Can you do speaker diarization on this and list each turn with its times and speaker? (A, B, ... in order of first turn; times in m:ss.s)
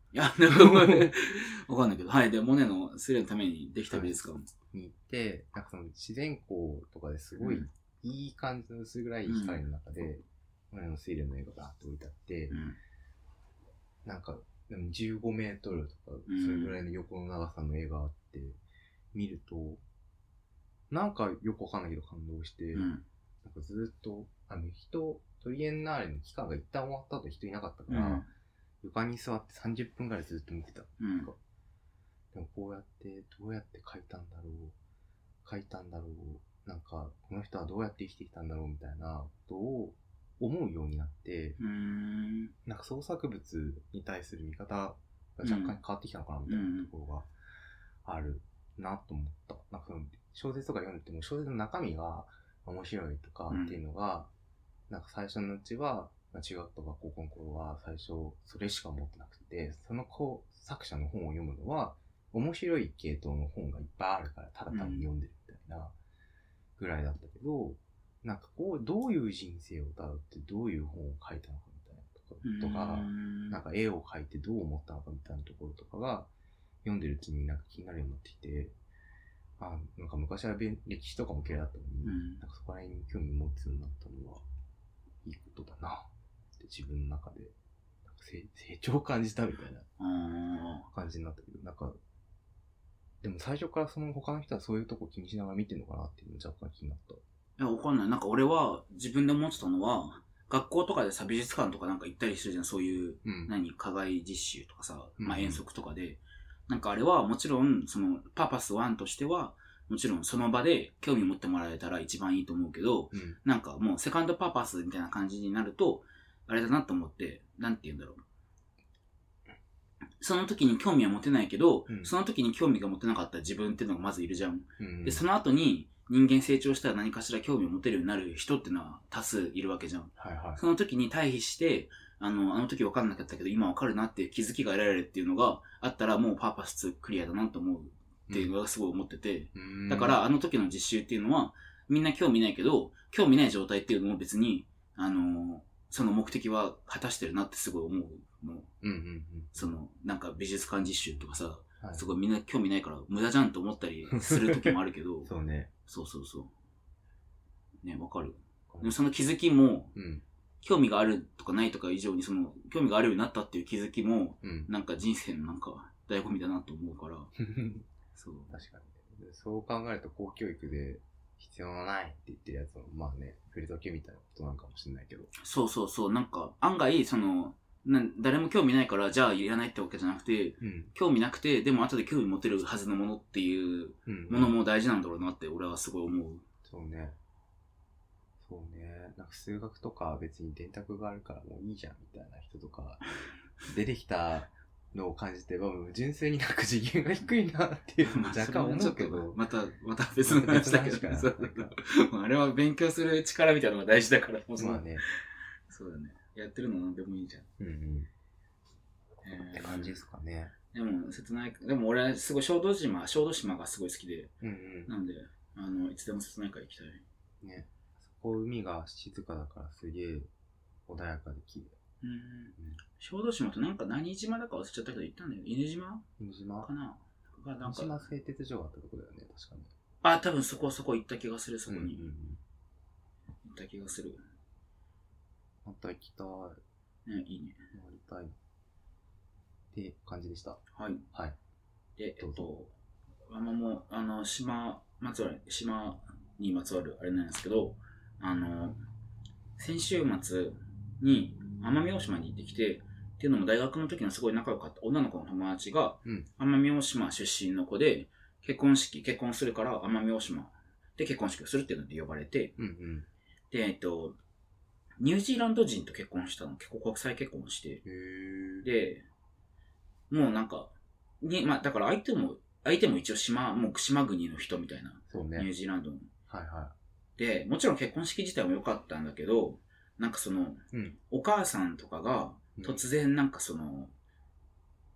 0:00.1-0:04.5 A
0:00.5-0:01.1 B
0:03.9-0:04.2 B
0:04.7-0:12.6 B
0:07.4-0:07.7 A
0:09.2-0:09.6 A
0:12.5-0:12.8 A
0:14.0-0:18.6 B
0:16.3-0:16.8 A
0:19.1-0:19.8 B
0:20.9-0:22.9 B
0:22.7-0:23.0 A
0:23.4-0:28.2 B
0:27.9-0:28.3 A
0:28.8-0:31.4 B
0:31.0-0:31.3 A
0:32.3-0:34.8 B
0:35.4-0:41.6 B
0:41.6-0:42.5 A
0:42.6-0:47.3 B
0:45.4-0:45.8 A
0:46.5-0:46.9 A
0:48.0-0:54.3 B
0:53.5-0:53.8 A
0:54.9-1:05.9 B
1:04.7-1:05.1 A
1:06.8-1:16.3 B
1:12.4-1:13.6 A
1:16.8-1:18.7 B
1:19.6-1:24.4 B
1:22.0-1:22.4 A
1:25.2-1:29.9 B
1:30.0-1:30.9 A
1:30.9-1:32.0 B
1:33.2-1:37.2 B
1:37.6-1:58.2 A
1:43.2-1:43.5 B
1:45.2-1:45.6 B
1:53.1-1:53.4 B
2:00.2-2:28.7 A
2:04.8-2:05.2 B
2:10.2-2:10.6 B
2:19.5-2:20.2 B
2:28.8-2:29.7 B
2:29.5-2:35.3 A
2:31.8-2:32.0 B
2:34.1-2:35.7 B
2:35.9-2:36.5 A
2:37.8-2:39.9 A
2:39.9-2:40.2 B
2:40.6-2:47.3 A
2:44.4-2:44.7 B
2:47.4-2:47.8 B
2:48.1-2:48.6 A
2:48.5-2:55.3 B
2:55.4-3:06.4 A
3:00.6-3:00.9 B
3:04.0-3:04.5 B
3:06.6-3:07.2 B
3:08.4-3:13.0 B
3:13.6-3:19.4 B
3:18.0-3:25.0 A
3:20.2-3:21.7 B
3:24.6-3:25.0 B
3:25.7-3:27.5 A
3:27.6-3:28.1 B
3:29.2-3:30.0 A
3:29.3-3:30.5 B
3:30.7-3:34.3 A
3:34.4-3:34.9 B
3:34.8-3:37.0 A
3:37.4-3:40.3 B
3:40.9-3:41.7 B
3:42.0-3:46.0 A
3:46.2-3:46.7 B
3:46.6-3:48.1 A
3:47.6-3:49.7 B
3:50.0-3:52.0 A
3:51.7-3:52.4 B
3:53.4-3:54.2 A
3:55.6-3:56.6 B
3:57.0-3:57.6 A
3:57.7-3:58.3 B
3:59.7-4:00.6 B
4:00.7-4:01.0 A
4:02.0-4:02.7 A
4:02.2-4:02.5 B
4:03.3-4:08.8 A
4:09.6-4:22.5 A
4:22.6-4:23.1 B
4:23.5-4:24.2 A
4:25.0-4:27.8 A
4:27.8-4:28.7 B
4:28.6-4:29.1 A
4:30.1-4:36.1 A
4:35.1-4:35.5 B
4:36.3-4:36.7 B
4:37.2-4:43.9 A
4:40.7-4:41.0 B
4:42.6-4:42.8 B